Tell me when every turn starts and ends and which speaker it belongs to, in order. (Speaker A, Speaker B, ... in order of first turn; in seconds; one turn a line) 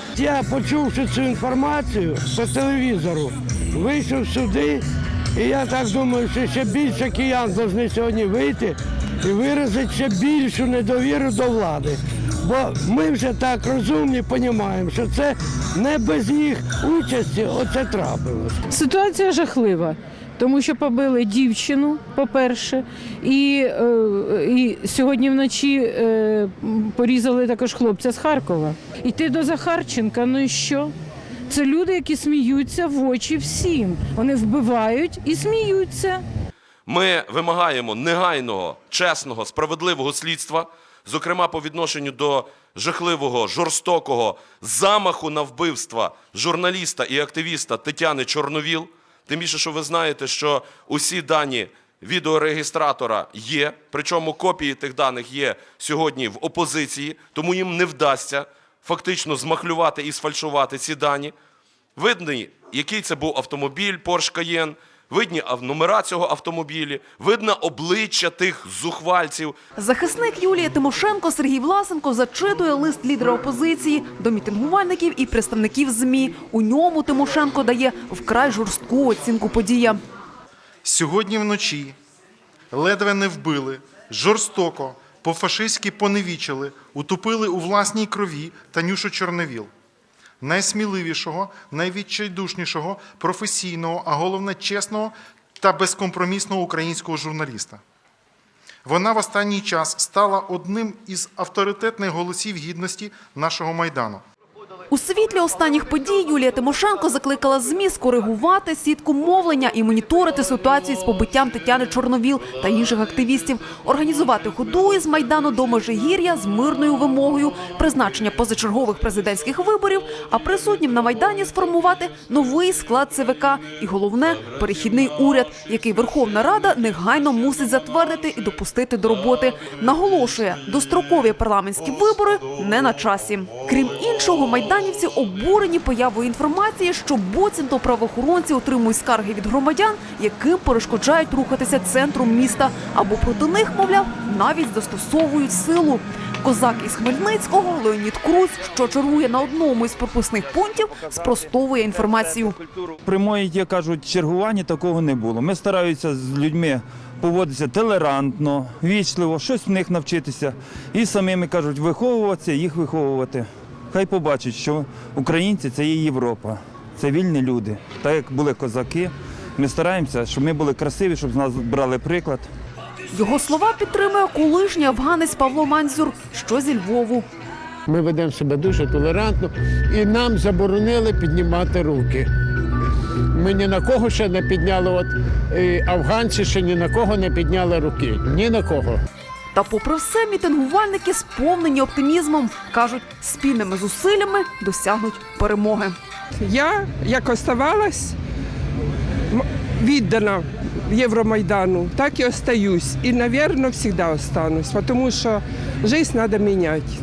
Speaker A: 0.1-4.8
Speaker A: 5.3-18.6
Speaker B: 18.7-30.9
Speaker B: 31.5-36.2
Speaker C: 36.9-61.3
Speaker C: 62.0-69.6
Speaker D: 69.8-80.0
Speaker E: 80.8-82.0
Speaker E: 82.7-89.7
Speaker E: 90.4-97.8
Speaker E: 98.8-104.2
Speaker D: 104.9-152.6
Speaker F: 152.1-172.5
Speaker D: 173.1-177.3
Speaker G: 177.9-182.3
Speaker G: 183.4-189.0
Speaker D: 189.5-196.0
Speaker H: 200.0-200.3
Speaker H: 200.9-205.2